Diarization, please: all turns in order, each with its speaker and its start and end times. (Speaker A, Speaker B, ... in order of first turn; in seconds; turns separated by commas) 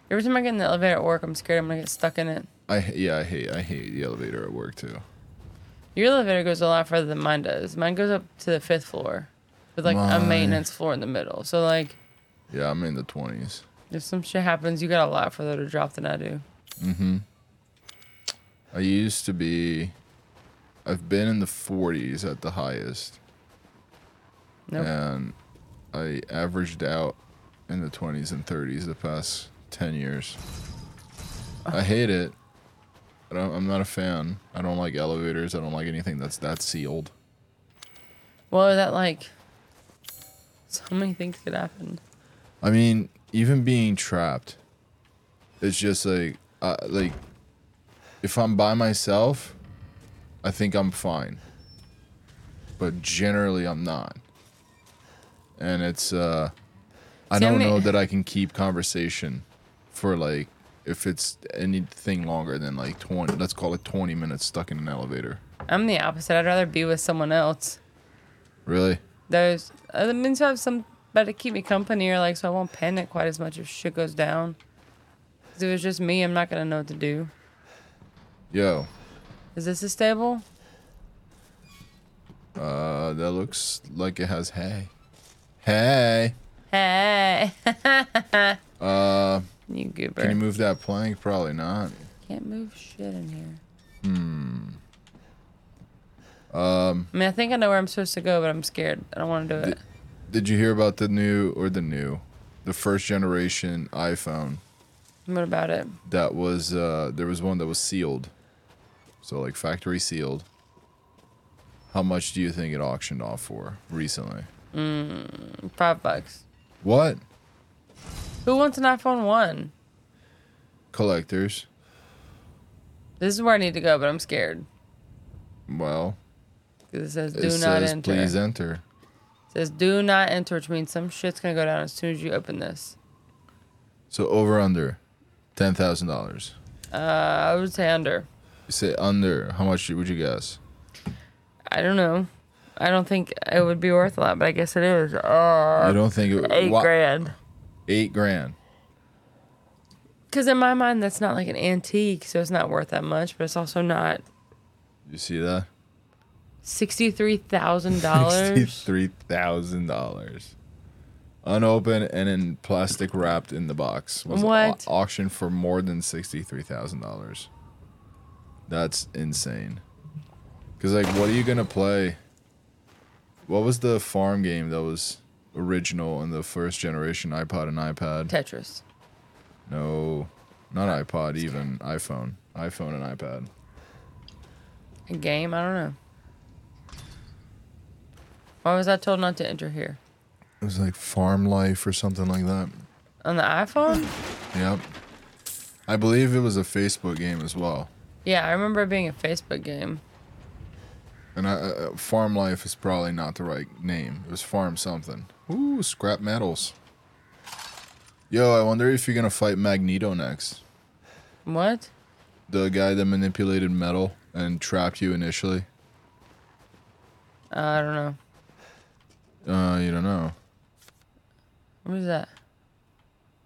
Speaker A: 0.1-2.5, Speaker B: 2.7-5.0, Speaker A: 6.0-12.0, Speaker B: 9.8-10.6, Speaker B: 12.5-13.7, Speaker A: 13.9-16.4, Speaker B: 16.8-17.2, Speaker B: 18.7-19.9, Speaker B: 20.9-23.2, Speaker B: 24.8-25.4, Speaker B: 25.9-30.4, Speaker B: 31.7-32.4, Speaker B: 33.3-37.1, Speaker A: 38.5-39.3, Speaker A: 40.7-42.0, Speaker B: 42.6-44.6, Speaker B: 45.6-47.2, Speaker B: 48.2-49.6, Speaker B: 50.4-51.4, Speaker B: 52.8-54.2, Speaker B: 55.6-56.5, Speaker B: 57.3-65.4, Speaker A: 57.3-57.9, Speaker A: 65.7-67.8, Speaker B: 68.7-69.0, Speaker A: 69.3-74.6, Speaker A: 75.5-77.3, Speaker B: 78.5-78.9, Speaker A: 79.5-80.4, Speaker B: 82.6-84.9, Speaker B: 85.6-86.4, Speaker A: 86.7-88.6, Speaker B: 88.8-89.5, Speaker A: 89.7-90.4, Speaker B: 90.2-92.1, Speaker A: 92.3-93.6, Speaker B: 94.0-94.8, Speaker B: 96.5-97.1, Speaker A: 97.1-99.8, Speaker B: 99.6-104.6, Speaker A: 105.3-106.0, Speaker B: 106.0-108.3, Speaker B: 109.2-110.5, Speaker B: 111.9-114.5, Speaker A: 114.7-116.4, Speaker B: 116.8-117.2, Speaker A: 118.5-119.7, Speaker B: 120.9-121.7, Speaker A: 123.2-124.7, Speaker B: 125.7-126.2, Speaker A: 126.9-128.3, Speaker B: 127.3-128.8, Speaker A: 129.5-133.0, Speaker B: 134.1-135.0, Speaker B: 135.6-136.6, Speaker A: 136.9-138.3, Speaker B: 138.7-140.6, Speaker A: 141.7-147.3, Speaker B: 145.8-147.3, Speaker B: 147.9-148.6, Speaker A: 150.3-154.2, Speaker B: 155.1-155.7, Speaker A: 156.6-158.9, Speaker B: 157.9-160.6, Speaker B: 161.4-167.5, Speaker A: 164.3-164.9, Speaker B: 168.7-169.8, Speaker B: 170.8-172.2, Speaker B: 173.5-178.3, Speaker A: 178.3-178.8, Speaker B: 179.7-183.5, Speaker A: 185.1-186.0, Speaker A: 188.6-190.0, Speaker B: 190.6-192.9, Speaker A: 193.2-194.1, Speaker B: 194.5-194.8, Speaker B: 195.9-197.9, Speaker A: 198.2-200.0, Speaker B: 201.3-206.8, Speaker B: 208.3-210.6, Speaker A: 211.5-211.9, Speaker B: 212.5-215.7, Speaker A: 217.5-218.2, Speaker B: 219.4-220.3, Speaker A: 221.8-222.3